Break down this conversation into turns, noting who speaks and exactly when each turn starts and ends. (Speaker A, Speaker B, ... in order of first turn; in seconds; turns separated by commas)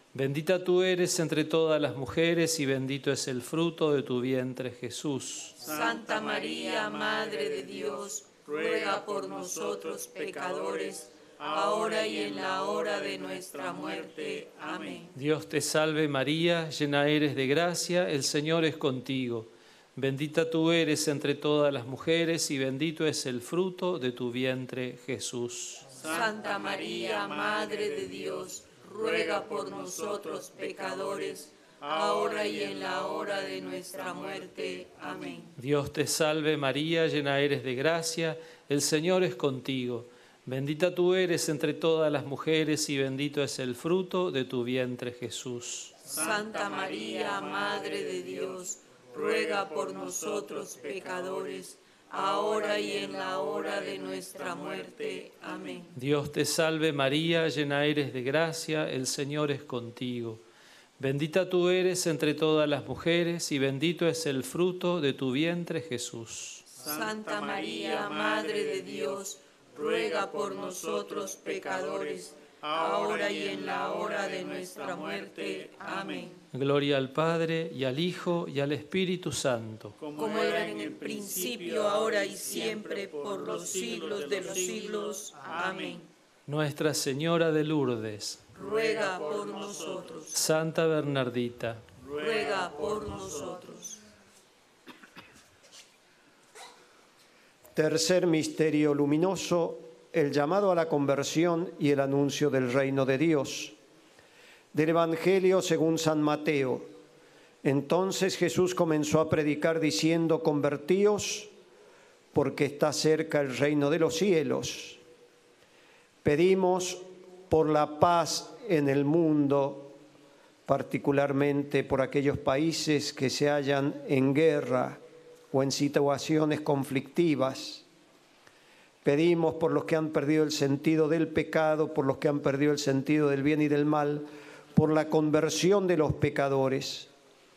Speaker A: 0.1-5.6, Speaker B: 5.6-15.1, Speaker A: 15.1-25.9, Speaker B: 26.0-35.5, Speaker A: 35.6-45.9, Speaker B: 46.0-55.9, Speaker A: 56.0-60.4, Speaker A: 61.0-66.6, Speaker B: 66.8-76.4, Speaker A: 76.5-80.0, Speaker B: 80.1-86.1, Speaker A: 86.5-88.4, Speaker B: 88.5-90.4, Speaker A: 90.3-91.8, Speaker B: 92.0-94.0, Speaker C: 97.7-103.8, Speaker C: 104.7-106.9, Speaker C: 107.6-111.5, Speaker C: 112.3-115.0, Speaker C: 116.2-119.9, Speaker C: 120.7-125.0, Speaker C: 125.5-127.8, Speaker C: 129.0-137.1